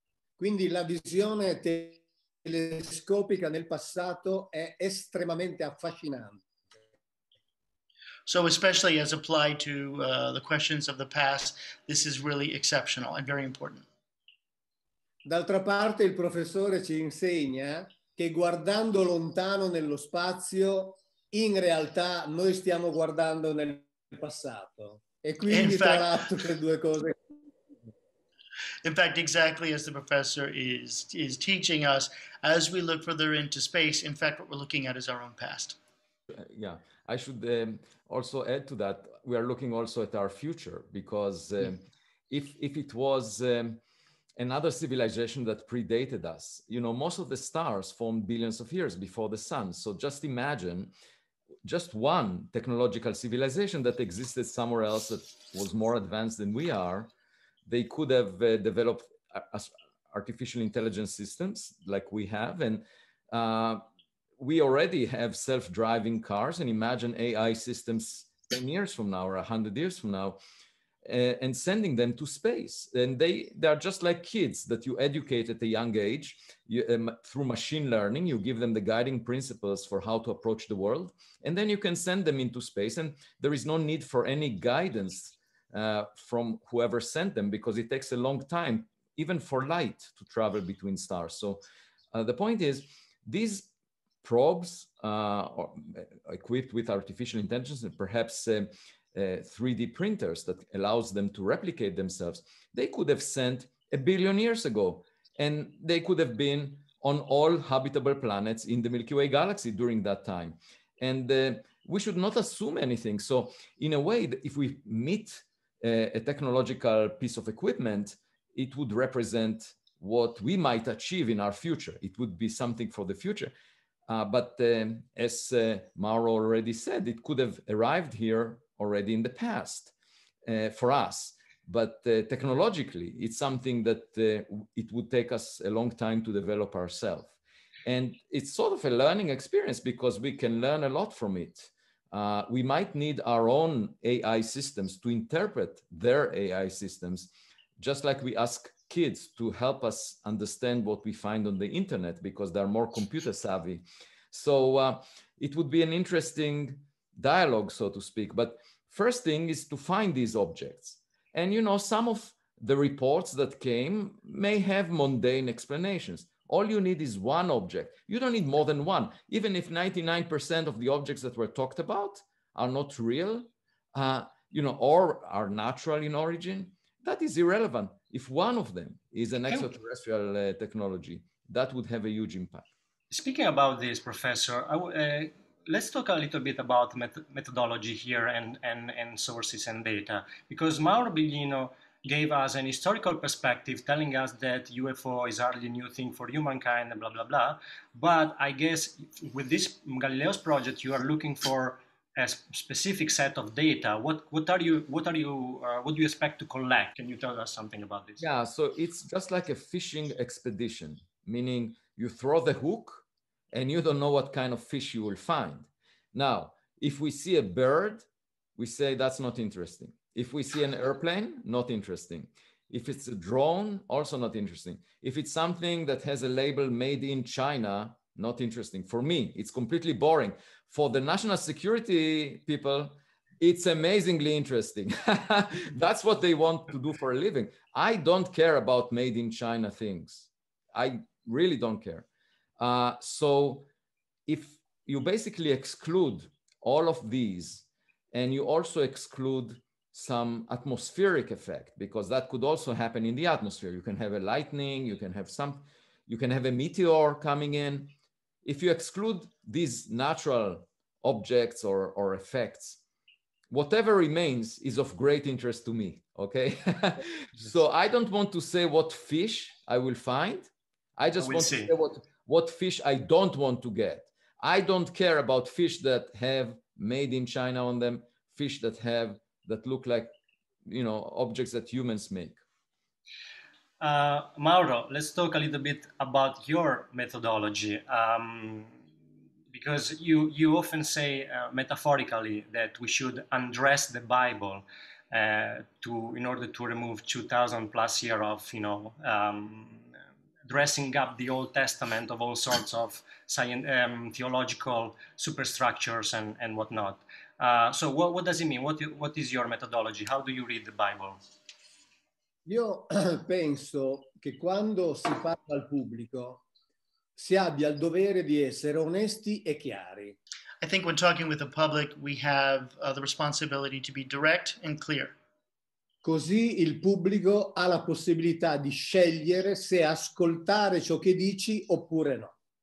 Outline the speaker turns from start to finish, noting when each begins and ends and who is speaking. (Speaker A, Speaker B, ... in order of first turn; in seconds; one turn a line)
Speaker A: 0.4-6.4
Speaker B: 8.2-13.8
Speaker A: 15.2-27.2
Speaker B: 25.5-26.1
Speaker B: 28.8-35.8
Speaker C: 36.4-43.8
Speaker C: 44.4-50.9
Speaker C: 51.6-57.1
Speaker C: 57.7-63.8
Speaker C: 64.4-70.4
Speaker C: 71.0-91.6
Speaker C: 92.1-93.7
Speaker C: 94.2-123.5
Speaker C: 124.1-129.9
Speaker C: 130.4-137.3
Speaker C: 137.8-182.7
Speaker D: 183.1-208.2
Speaker C: 208.2-218.1
Speaker C: 218.6-242.1
Speaker C: 242.6-243.7
Speaker C: 244.3-257.9
Speaker C: 258.4-262.8
Speaker C: 263.5-280.1
Speaker D: 271.2-271.7
Speaker C: 280.6-282.4
Speaker D: 283.8-288.7
Speaker D: 289.5-299.9
Speaker D: 300.4-311.2
Speaker A: 312.4-316.4
Speaker A: 317.2-320.2
Speaker B: 320.6-325.1
Speaker A: 326.0-332.3